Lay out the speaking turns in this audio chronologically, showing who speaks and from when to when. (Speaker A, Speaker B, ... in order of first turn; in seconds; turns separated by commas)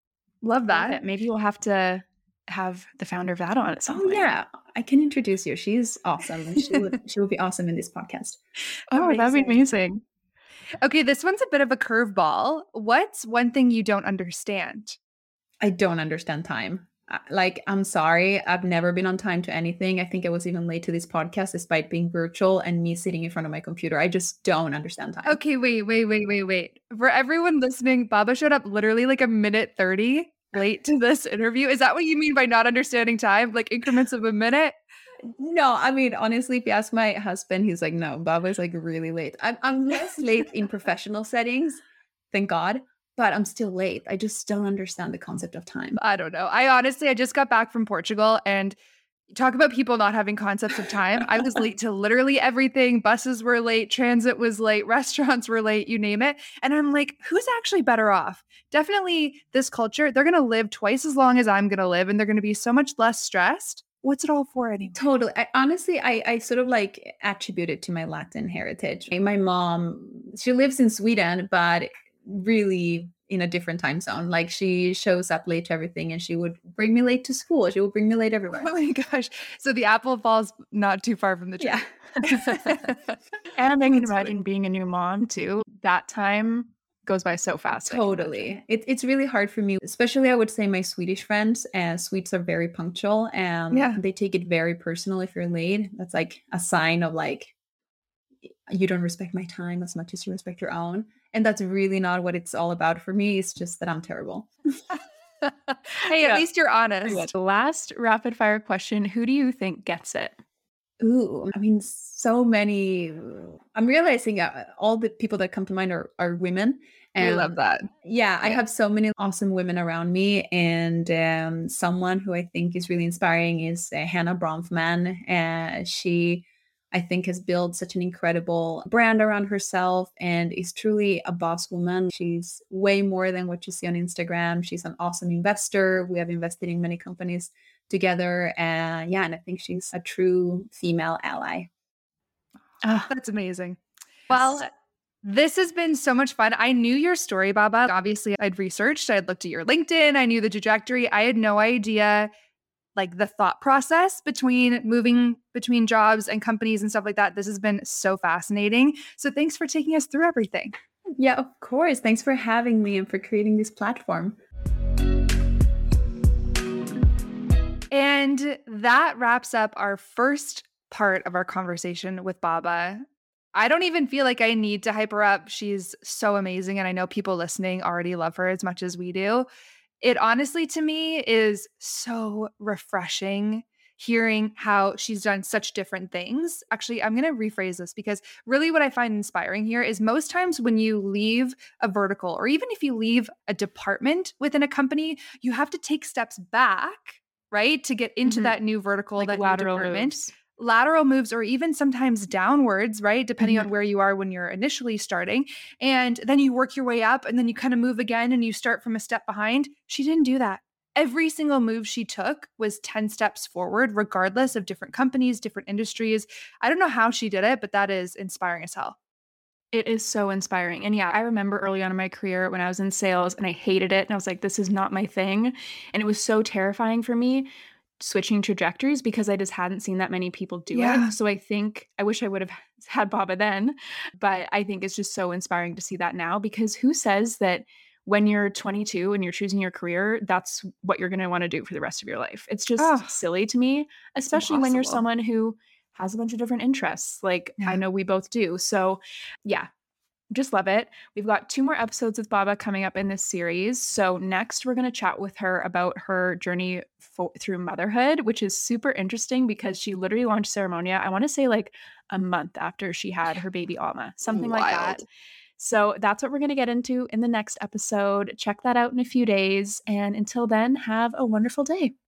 Speaker A: 0.4-1.0, Speaker B: 0.7-4.3, Speaker C: 3.9-8.4, Speaker B: 8.9-10.0, Speaker A: 9.0-9.5, Speaker C: 9.2-9.6, Speaker A: 10.8-15.0, Speaker C: 15.6-25.4, Speaker A: 25.2-34.7, Speaker C: 35.3-46.0, Speaker A: 46.0-48.8, Speaker A: 49.3-65.0, Speaker C: 64.9-78.7, Speaker A: 78.5-83.1, Speaker C: 81.6-82.5, Speaker B: 83.5-88.4, Speaker A: 83.9-84.4, Speaker C: 87.9-97.5, Speaker A: 93.7-94.0, Speaker C: 98.5-104.5, Speaker A: 106.0-107.3, Speaker B: 107.0-110.4, Speaker C: 111.0-141.7, Speaker B: 117.2-117.8, Speaker A: 117.2-117.6, Speaker B: 142.8-143.1, Speaker A: 143.0-143.8, Speaker A: 144.3-144.7, Speaker A: 145.2-152.3, Speaker A: 152.9-160.7, Speaker C: 161.2-164.4, Speaker A: 167.9-179.5, Speaker A: 180.0-219.0, Speaker B: 198.2-198.6, Speaker B: 199.2-200.3, Speaker B: 203.4-203.7, Speaker B: 219.7-227.5, Speaker B: 228.0-249.7, Speaker A: 230.7-231.1, Speaker A: 242.8-243.1, Speaker A: 244.3-245.0, Speaker B: 250.3-265.0, Speaker A: 264.3-265.0, Speaker B: 265.6-271.9